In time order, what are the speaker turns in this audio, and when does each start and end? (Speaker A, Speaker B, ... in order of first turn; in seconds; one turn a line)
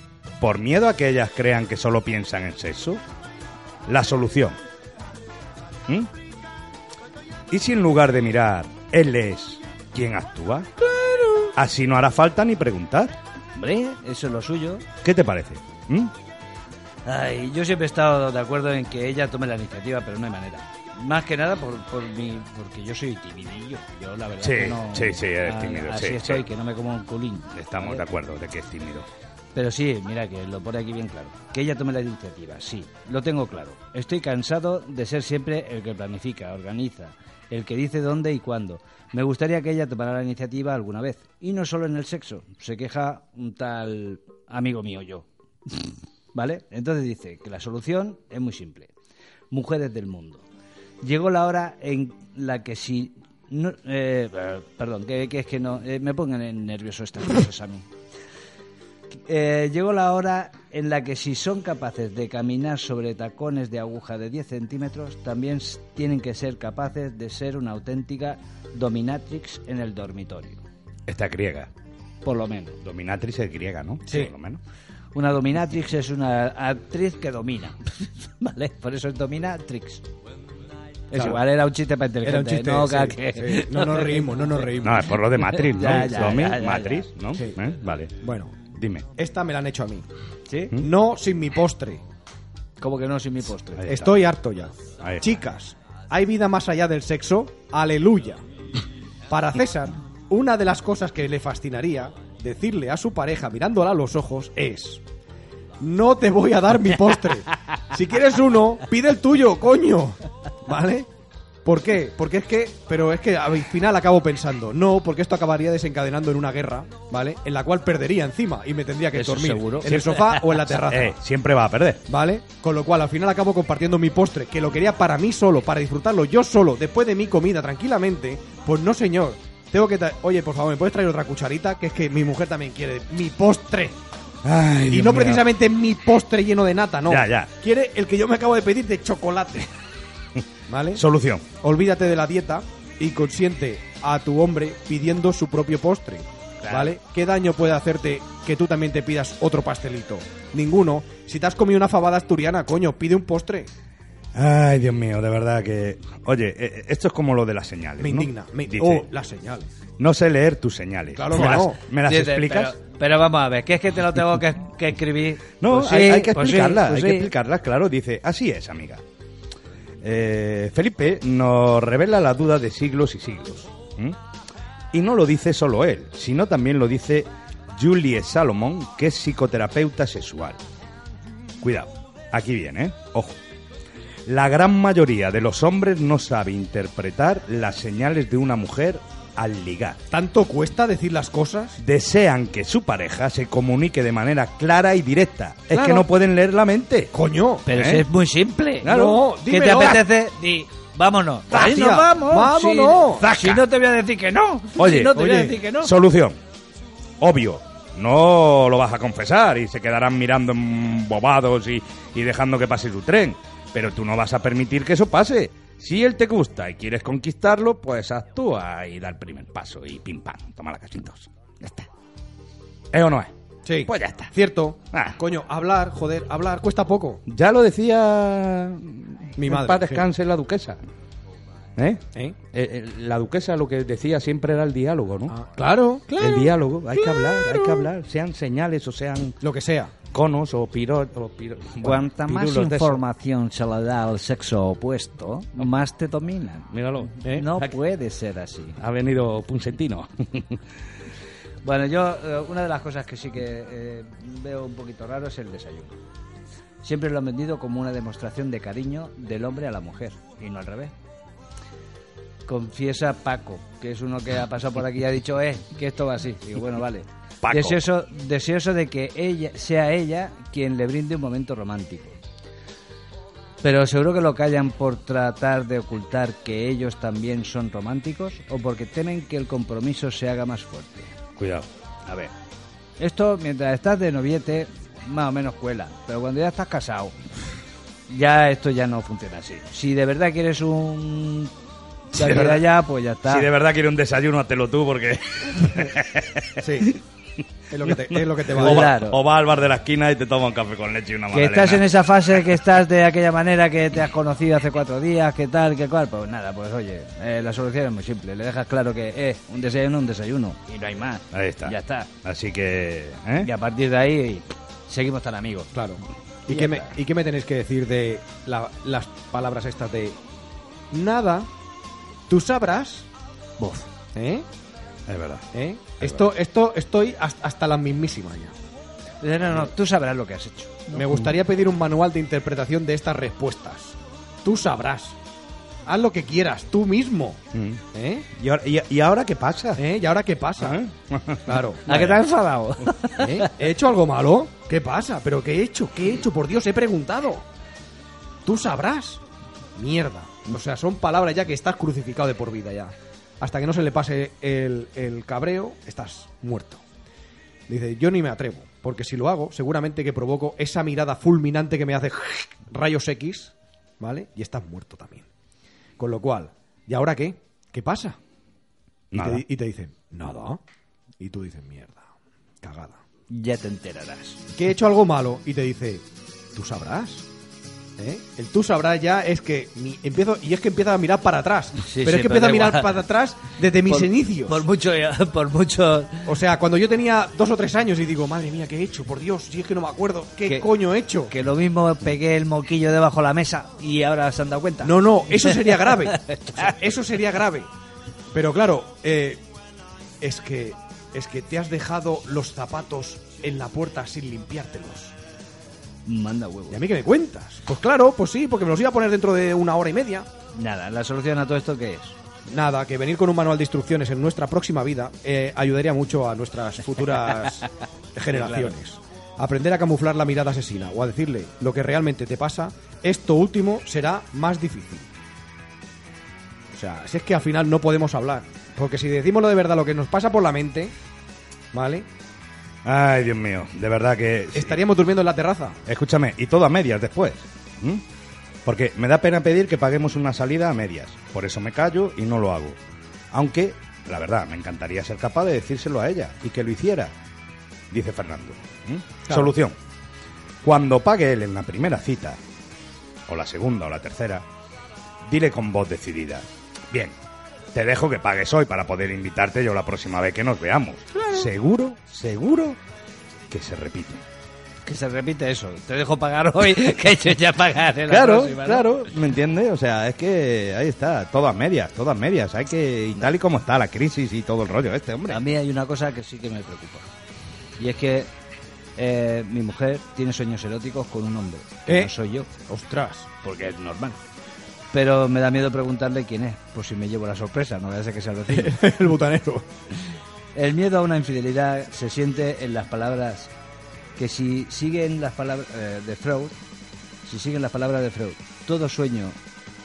Speaker A: 0.4-3.0
Speaker A: 3.9-4.6
Speaker A: 7.5-10.7
Speaker A: 11.5-13.2
Speaker B: 13.6-14.8
Speaker A: 15.0-16.1
Speaker B: 17.1-28.0
Speaker A: 24.4-26.4
Speaker A: 27.5-29.1
Speaker B: 29.5-48.9
Speaker B: 49.5-50.4
Speaker B: 51.0-57.9
Speaker B: 59.2-70.6
Speaker A: 71.1-71.7
Speaker B: 72.2-72.8
Speaker A: 72.8-74.6
Speaker C: 74.1-74.3
Speaker B: 75.1-80.0
Speaker B: 81.1-84.6
Speaker C: 81.1-81.4
Speaker C: 82.2-85.1
Speaker A: 84.8-88.1
Speaker B: 85.4-87.1
Speaker C: 87.3-87.6
Speaker C: 88.2-88.6
Speaker A: 88.7-89.1
Speaker C: 89.2-90.1
Speaker B: 90.5-90.8
Speaker C: 90.8-92.0
Speaker B: 92.8-93.9
Speaker A: 93.8-94.2
Speaker C: 93.9-98.4
Speaker A: 95.0-95.4
Speaker C: 99.3-105.0
Speaker C: 105.8-111.1
Speaker C: 111.6-121.2
Speaker B: 119.1-120.5
Speaker A: 119.9-122.0
Speaker C: 122.1-134.0
Speaker A: 134.4-135.5
Speaker C: 134.9-139.7
Speaker A: 137.1-137.5
Speaker C: 140.7-141.0
Speaker A: 140.9-141.4
Speaker C: 141.6-153.7
Speaker B: 146.6-146.9
Speaker A: 154.3-159.1
Speaker C: 158.0-159.7
Speaker A: 160.0-162.8
Speaker C: 161.1-161.8
Speaker B: 161.3-167.3
Speaker A: 165.6-169.0
Speaker A: 170.0-174.2
Speaker A: 174.9-180.6
Speaker A: 181.6-183.4
Speaker A: 184.3-190.0
Speaker C: 190.1-191.8
Speaker A: 191.8-197.1
Speaker B: 195.7-196.0
Speaker C: 197.1-197.7
Speaker B: 197.7-198.9
Speaker A: 197.7-198.1
Speaker A: 198.8-199.2
Speaker C: 198.8-200.0
Speaker B: 199.4-205.9
Speaker C: 201.5-203.6
Speaker A: 204.8-205.2
Speaker C: 205.1-205.6
Speaker A: 205.8-206.4
Speaker A: 207.2-221.9
Speaker A: 222.9-223.3
Speaker C: 223.6-227.2
Speaker A: 223.9-224.3
Speaker A: 224.9-225.2
Speaker A: 227.3-230.8
Speaker C: 229.4-230.1
Speaker A: 231.8-235.3
Speaker C: 235.3-237.8
Speaker A: 236.2-239.4
Speaker C: 239.4-239.9
Speaker A: 240.1-243.0
Speaker B: 241.8-246.7
Speaker A: 246.7-247.7
Speaker B: 247.2-248.8
Speaker A: 248.8-250.6
Speaker B: 251.6-255.9
Speaker B: 256.8-260.9
Speaker B: 262.4-272.2
Speaker A: 267.4-267.8
Speaker B: 273.6-281.1
Speaker A: 281.4-282.3
Speaker B: 283.0-287.2
Speaker B: 288.1-291.5
Speaker B: 292.1-293.5
Speaker A: 292.1-292.7
Speaker A: 293.3-297.0
Speaker C: 296.6-296.9
Speaker C: 297.7-298.9
Speaker A: 297.8-301.9
Speaker B: 298.6-299.2
Speaker B: 301.3-312.1
Speaker A: 311.3-313.5
Speaker B: 313.4-315.7
Speaker C: 315.7-320.2
Speaker B: 316.5-316.9
Speaker C: 320.9-321.5
Speaker C: 322.3-323.1
Speaker B: 323.6-323.9
Speaker C: 324.1-324.4
Speaker A: 325.1-325.4
Speaker C: 325.5-328.6
Speaker B: 329.2-331.0
Speaker C: 330.9-335.2
Speaker C: 335.8-337.4
Speaker A: 337.5-337.8
Speaker C: 337.9-338.3
Speaker A: 338.4-339.8
Speaker C: 339.8-340.8
Speaker A: 340.6-342.2
Speaker C: 341.4-341.8
Speaker B: 341.9-343.5
Speaker C: 343.2-347.4
Speaker C: 348.4-349.2
Speaker C: 349.8-356.8
Speaker C: 357.7-365.3
Speaker C: 366.0-368.2
Speaker A: 369.1-369.4
Speaker C: 369.1-370.6
Speaker C: 371.2-372.1
Speaker C: 372.6-373.0
Speaker B: 373.3-374.4
Speaker C: 374.5-377.3
Speaker C: 378.0-384.6
Speaker B: 381.8-383.0
Speaker B: 383.9-386.3
Speaker C: 386.2-391.3
Speaker B: 391.3-396.8
Speaker C: 394.8-397.7
Speaker C: 398.3-399.4
Speaker C: 400.2-405.1
Speaker B: 406.1-406.8
Speaker C: 406.7-410.3
Speaker B: 410.5-412.2
Speaker C: 412.5-425.1
Speaker B: 418.3-418.7
Speaker C: 426.7-430.9
Speaker C: 431.7-432.1
Speaker A: 432.8-434.8
Speaker C: 434.5-435.8
Speaker A: 435.9-438.0
Speaker A: 438.6-442.8
Speaker A: 443.3-447.1
Speaker A: 447.9-449.7
Speaker C: 449.3-449.5
Speaker A: 450.6-452.4
Speaker A: 453.3-454.4
Speaker A: 455.2-457.1
Speaker A: 457.7-462.8
Speaker A: 463.5-464.2
Speaker B: 464.8-468.9
Speaker A: 468.1-475.4
Speaker B: 475.3-477.1
Speaker B: 477.8-478.3
Speaker B: 479.0-482.5
Speaker C: 481.9-482.1
Speaker C: 482.7-483.3
Speaker B: 483.4-484.2
Speaker B: 484.9-488.8
Speaker C: 488.5-489.7
Speaker B: 490.5-493.5
Speaker B: 494.2-496.6
Speaker B: 497.2-499.4